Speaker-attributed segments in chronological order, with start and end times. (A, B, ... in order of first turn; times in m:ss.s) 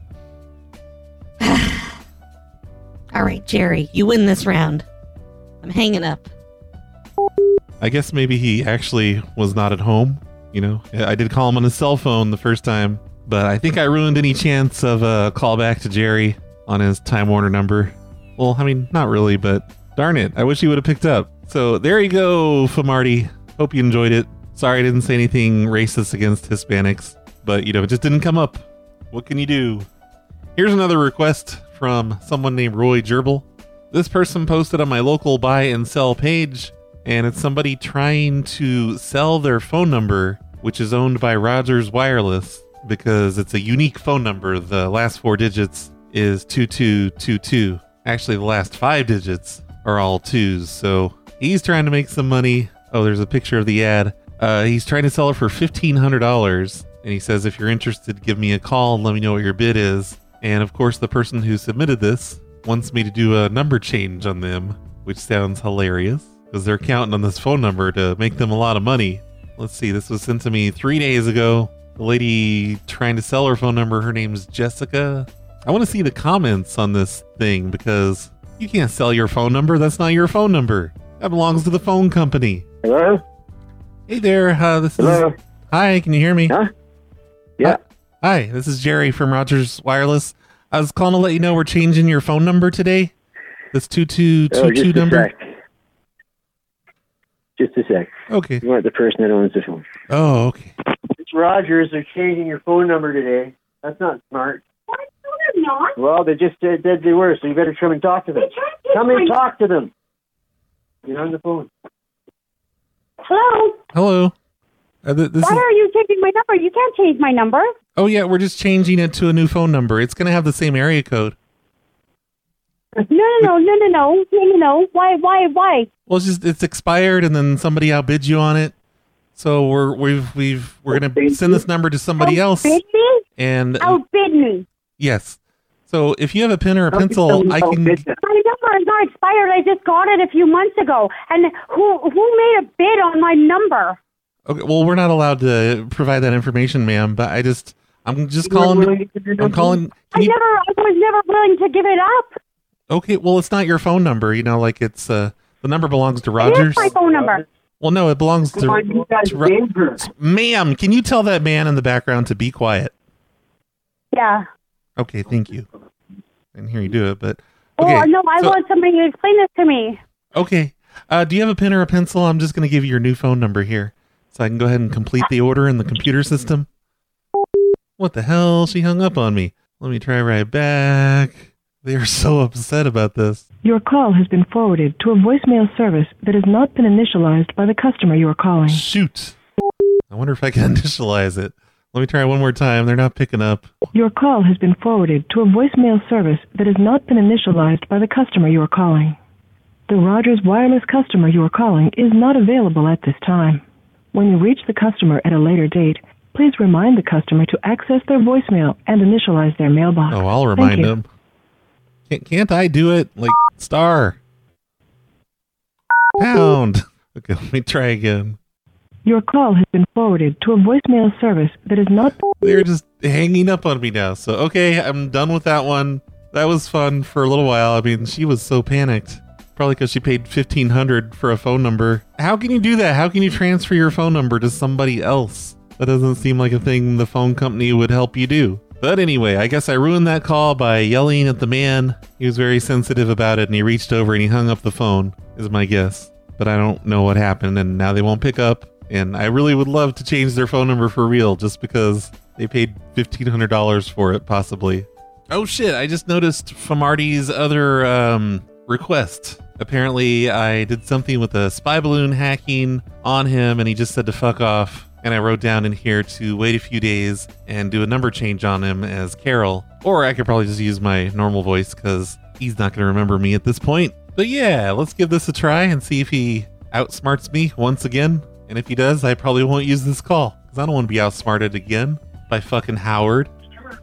0:01.4-0:02.0 A
0:03.1-0:04.8 A
0:05.6-0:06.3 A
0:07.8-0:29.9 B
0:30.6-1:22.6 B
1:22.8-1:23.2 C
1:24.1-1:26.6 B
1:25.0-1:25.3 C
1:27.6-1:33.1 B
1:33.7-1:35.3 B
1:34.5-1:35.5 C
1:37.6-1:38.1 C
1:38.3-1:38.6 B
1:38.6-1:39.8 C
1:40.1-1:40.7 B
1:41.2-1:44.6 C
1:44.9-1:46.0 D
1:46.0-1:49.9 C
1:48.4-1:49.4 D
1:51.0-1:51.7 C
1:53.2-1:53.8 D
1:53.9-1:54.3 B
1:55.0-1:55.6 B
1:55.4-1:57.7 D
1:58.0-2:01.4 B
2:03.0-2:05.9 D
2:06.1-2:08.7 B
2:09.4-2:12.8 B
2:11.1-2:11.6 C
2:12.2-2:13.2 D
2:13.4-2:14.0 B
2:13.8-2:14.6 D
2:15.0-2:18.0 B
2:16.9-2:18.1 C
2:18.2-2:24.0 D
2:24.5-2:30.4 B
2:28.4-2:29.8 C
2:30.1-2:32.4 D
2:32.9-2:37.0 B
2:36.4-2:37.4 D
2:37.8-2:42.9 B
2:38.5-2:40.0 C
2:44.1-2:44.4 D
2:45.0-2:45.6 B
2:46.5-2:48.6 B
2:47.8-2:50.0 D
2:50.3-2:56.7 B
2:58.0-3:03.4 B
3:03.6-3:08.8 E
3:08.7-3:09.4 B
3:10.1-3:13.7 B
3:13.9-3:19.2 E
3:19.9-3:23.6 E
3:24.1-3:30.9 E
3:30.1-3:31.0 B
3:32.1-3:34.2 B
3:36.2-3:38.4 B
3:39.0-3:42.2 E
3:42.4-4:43.3 B